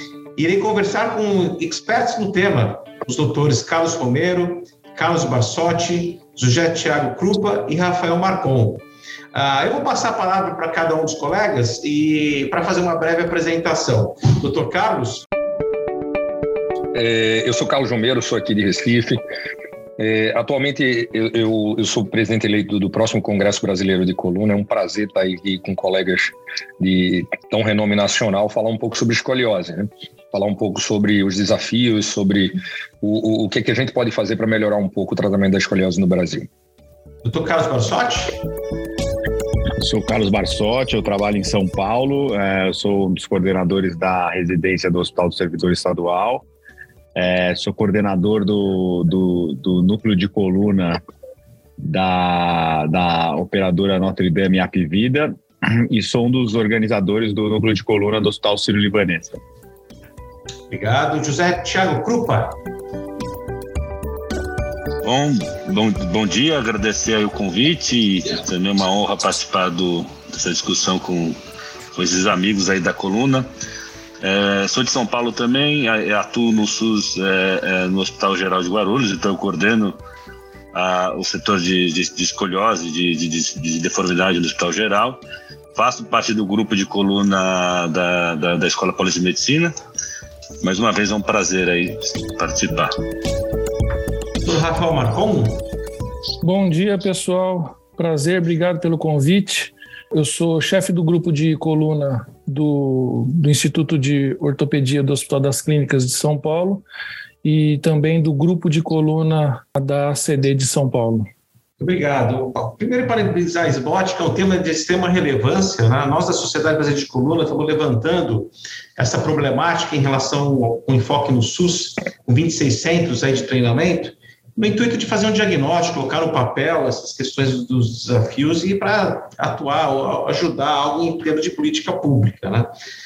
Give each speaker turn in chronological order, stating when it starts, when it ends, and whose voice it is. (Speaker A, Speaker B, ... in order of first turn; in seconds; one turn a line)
Speaker A: 0.3-15.2
Speaker B: 16.9-19.2
Speaker B: 20.0-36.5
Speaker A: 37.2-38.4
Speaker C: 39.8-46.4
Speaker C: 47.1-51.0
Speaker C: 51.8-59.4
Speaker A: 60.7-62.6
Speaker D: 65.0-71.4
Speaker D: 71.9-73.5
Speaker D: 74.2-80.0
Speaker D: 80.7-85.2
Speaker D: 85.7-89.7
Speaker D: 90.6-92.9
Speaker A: 94.4-95.6
Speaker E: 96.4-106.8
Speaker E: 107.4-111.3
Speaker A: 111.8-132.7